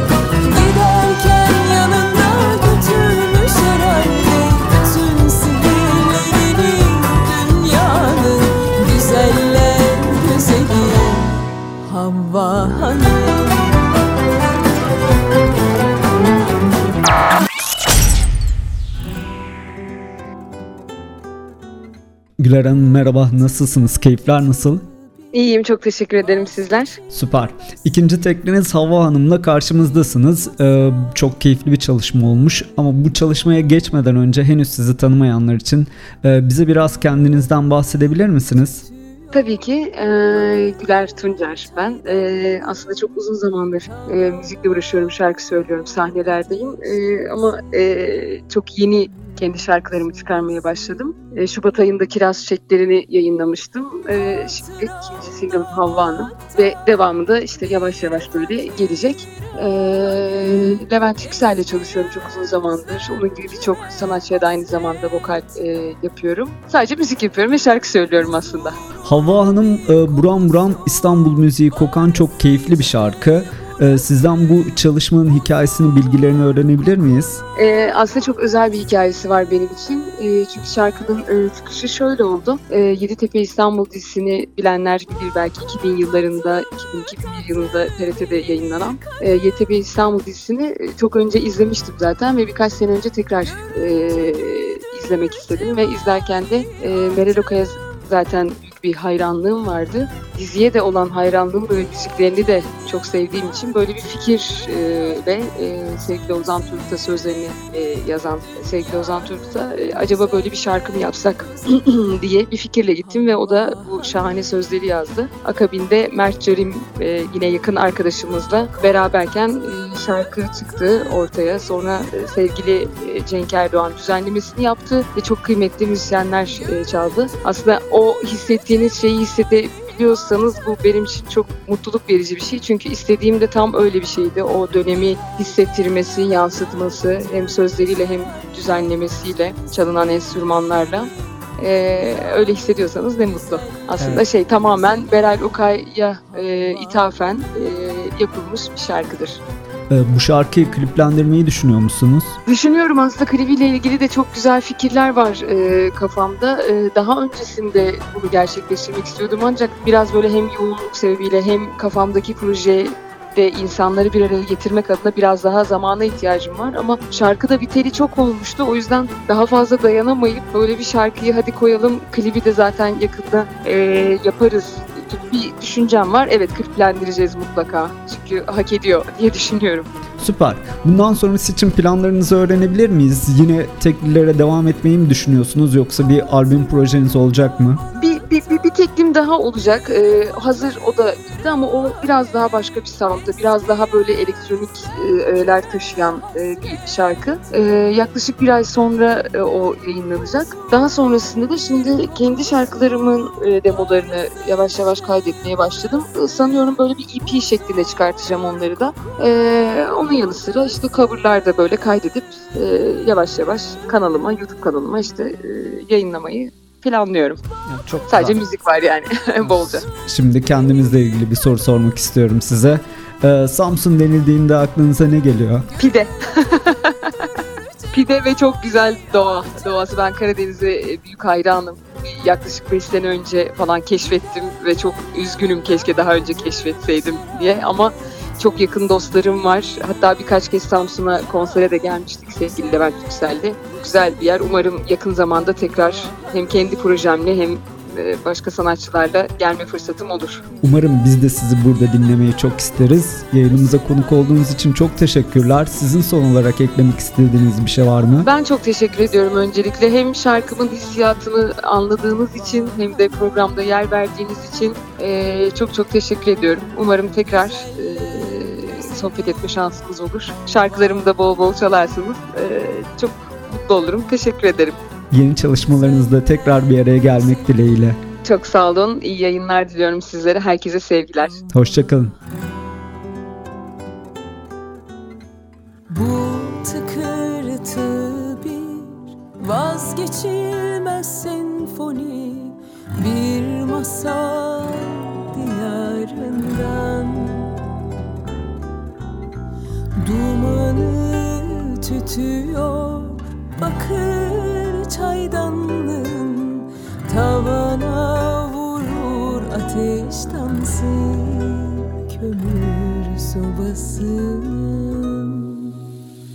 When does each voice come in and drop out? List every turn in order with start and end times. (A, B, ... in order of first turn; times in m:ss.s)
0:00.4-0:13.7 A
0:22.4-0:24.8 B
0:25.3-0:27.0 C
0:27.1-0:38.8 B
0:39.3-1:08.8 C
1:09.0-1:17.4 B
1:17.6-2:29.4 C
2:24.0-2:24.2 B
2:29.9-2:32.4 B
2:32.4-2:59.9 C
3:00.2-3:07.8 B
3:07.9-3:37.4 C
3:37.7-3:38.4 B
3:38.1-3:39.8 C
3:39.9-3:45.6 B
3:45.8-3:47.3 C
3:47.9-4:10.4 C
4:10.6-4:18.3 B
4:18.2-4:34.8 C
4:35.1-4:38.0 B
4:38.2-4:41.4 C
4:41.5-4:42.1 B
4:45.9-4:57.6 A
4:59.9-5:15.8 A